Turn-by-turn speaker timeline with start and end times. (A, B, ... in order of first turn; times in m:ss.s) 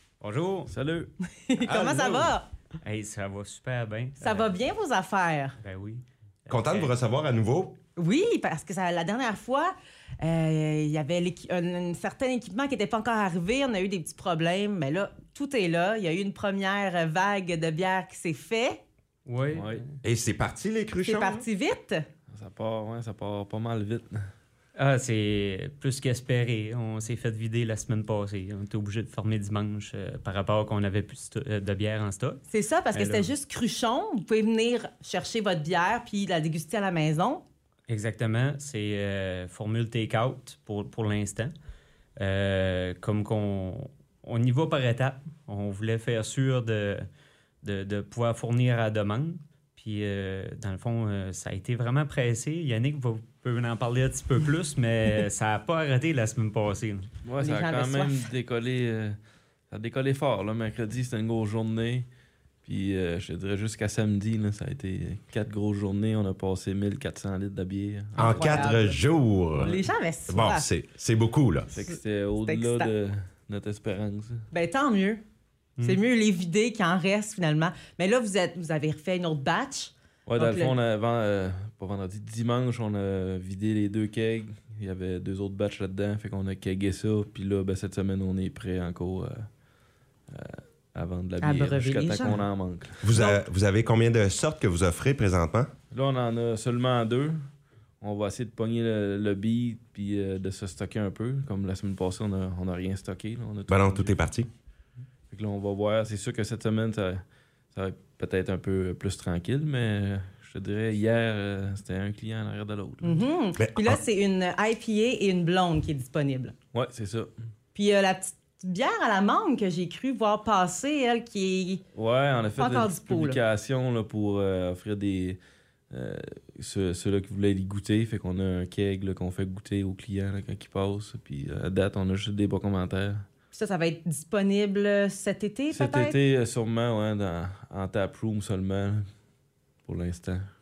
0:00.2-0:00.7 A
0:00.7-0:01.1 B
0:01.2-0:02.5 C
0:01.7-0:02.3 D
0:02.8-0:04.5 A
0:04.2-0:05.6 C
0:05.6-0:06.9 A
0:06.5-0:07.8 D
0:08.0-0:18.8 C
0:19.2-0:19.9 A
0:19.5-0:19.8 B
0:20.0-0:21.4 D
0:21.0-0:22.0 C
0:22.3-0:24.2 B
0:24.8-0:32.4 A
0:32.5-0:37.4 C
0:32.9-0:33.3 A
0:37.9-0:41.5 A
0:42.2-0:47.1 A
0:47.6-0:57.1 A
0:57.2-0:59.2 B
0:57.4-0:58.2 C
0:59.7-1:02.1 B
1:02.6-1:08.7 B
1:08.2-1:11.7 D
1:08.2-1:09.0 C
1:09.5-1:10.7 C
1:11.7-1:14.4 B
1:12.4-1:12.9 C
1:14.5-1:15.2 C
1:15.8-1:20.7 C
1:20.3-1:29.5 B
1:30.3-1:33.2 B
1:31.4-1:32.4 C
1:33.0-1:35.7 D
1:35.9-1:37.4 B
1:38.0-1:44.2 B
1:43.7-1:44.5 D
1:45.3-1:53.2 B
1:53.0-1:56.5 C
1:53.6-1:54.0 D
1:56.7-1:57.3 B
1:57.7-2:01.8 C
2:01.9-2:05.4 B
2:02.6-2:03.4 C
2:05.9-2:13.2 B
2:13.5-2:16.2 C
2:15.7-2:19.0 B
2:19.8-2:20.5 B